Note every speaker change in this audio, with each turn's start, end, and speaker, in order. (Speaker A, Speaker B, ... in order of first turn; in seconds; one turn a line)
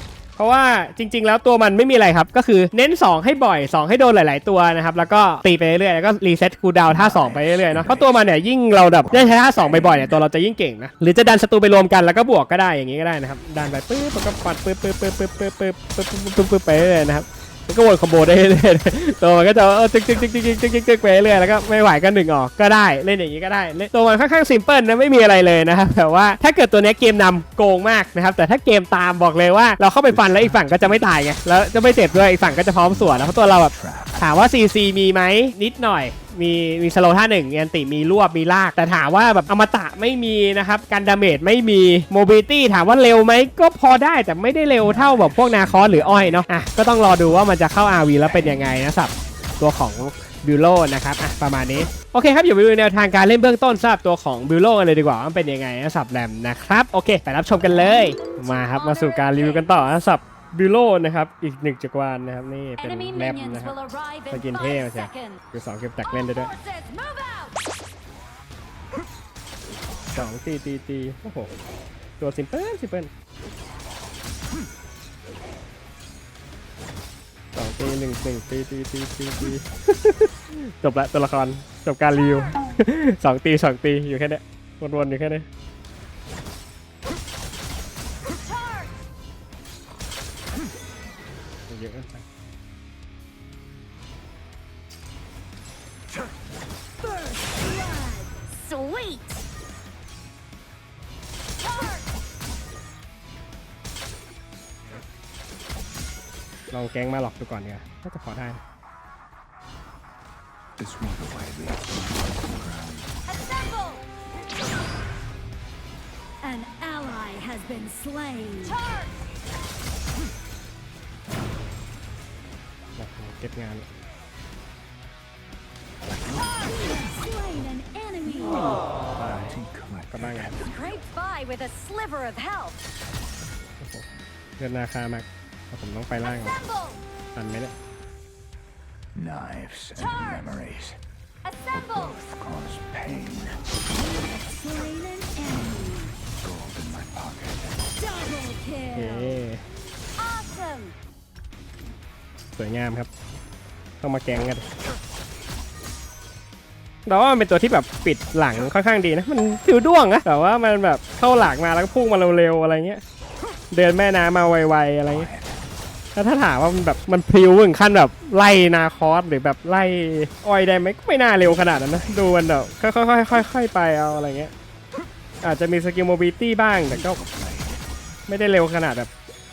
Speaker A: 0.4-63.8
Speaker B: 6.8-8.1
Speaker B: 8.8-10.2
Speaker B: 30.1-31.0
Speaker B: 32.2-34.3
Speaker B: 44.8-46.4
Speaker B: 48.2-48.9
Speaker C: 58.0-59.9
Speaker C: 62.8-65.4
Speaker A: 64.3-66.5
Speaker C: 66.1-67.6
Speaker A: 70.1-71.5
Speaker A: 72.2-73.1
Speaker A: 77.5-85.5
Speaker C: 88.4-89.0
Speaker A: 91.7-92.2
Speaker C: 97.1-99.4
Speaker C: 101.6-102.1
Speaker A: 106.7-108.6
Speaker B: 110.8-113.1
Speaker C: 113.3-114.0
Speaker D: 116.4-118.7
Speaker C: 118.6-119.1
Speaker A: 123.0-123.9
Speaker B: 126.1-127.1
Speaker D: 126.7-128.7
Speaker A: 129.2-129.6
Speaker B: 129.3-131.0
Speaker A: 130.1-130.6
Speaker C: 130.6-132.8
Speaker A: 134.6-136.6
Speaker C: 136.2-137.0
Speaker A: 137.3-137.7
Speaker B: 139.2-141.0
Speaker C: 140.0-140.3
Speaker C: 141.4-142.2
Speaker B: 141.7-143.6
Speaker D: 143.9-146.1
Speaker B: 146.4-147.9
Speaker D: 148.0-149.1
Speaker A: 148.9-149.6
Speaker C: 150.2-150.9
Speaker A: 152.6-153.1
Speaker A: 154.0-154.7
Speaker A: 157.1-163.0
Speaker A: 163.7-165.3
Speaker B: 165.1-165.6
Speaker A: 166.2-174.5
Speaker B: 171.7-172.2
Speaker A: 175.4-177.2
Speaker B: 176.8-177.8
Speaker A: 178.3-179.1